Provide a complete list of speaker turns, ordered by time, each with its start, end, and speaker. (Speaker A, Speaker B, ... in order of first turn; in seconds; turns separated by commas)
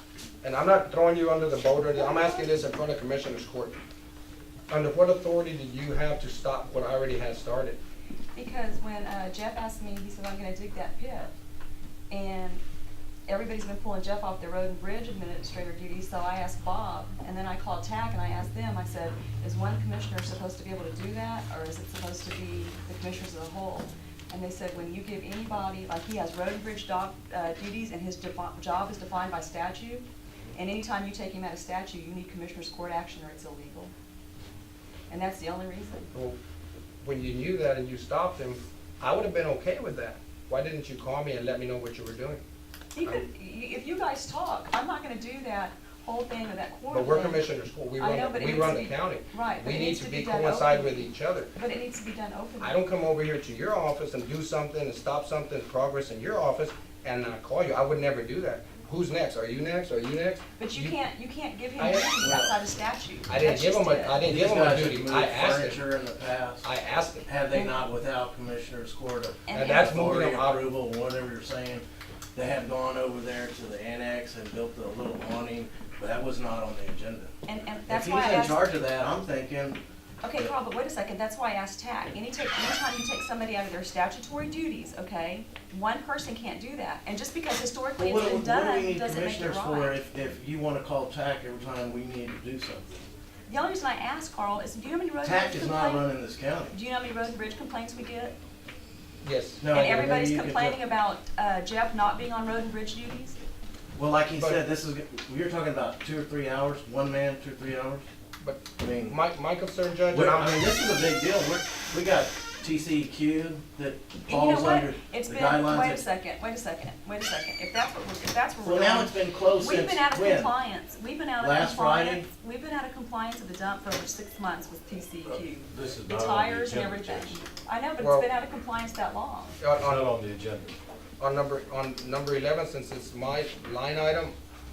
Speaker A: 0.4-3.7, Speaker B: 1.9-2.5, Speaker A: 4.7-7.8, Speaker B: 8.3-11.3, Speaker B: 12.1-12.6, Speaker B: 13.3-33.9, Speaker B: 35.1-36.1, Speaker A: 36.1-36.4, Speaker A: 37.0-42.4, Speaker B: 43.0-47.4, Speaker A: 46.9-51.5, Speaker B: 48.0-52.7, Speaker A: 52.6-61.0, Speaker B: 60.6-64.2, Speaker A: 61.8-62.6, Speaker A: 63.3-65.8, Speaker C: 64.2-66.7, Speaker A: 66.6-67.3, Speaker C: 67.2-77.3, Speaker B: 69.5-70.0, Speaker A: 69.5-70.6, Speaker B: 77.5-78.6, Speaker C: 77.9-79.8, Speaker B: 80.2-89.9, Speaker C: 88.0-92.9, Speaker B: 93.5-96.0, Speaker C: 95.2-96.7, Speaker B: 96.7-98.3, Speaker A: 99.2-99.6, Speaker C: 99.6-100.8, Speaker B: 99.7-103.4, Speaker C: 104.0-108.0, Speaker A: 108.4-110.6, Speaker C: 108.8-109.2, Speaker C: 110.1-116.0, Speaker B: 114.3-129.6, Speaker C: 118.6-120.5, Speaker C: 121.4-122.2, Speaker D: 125.3-127.4, Speaker A: 128.0-128.3, Speaker A: 129.6-130.0, Speaker D: 129.7-130.7, Speaker A: 131.2-134.3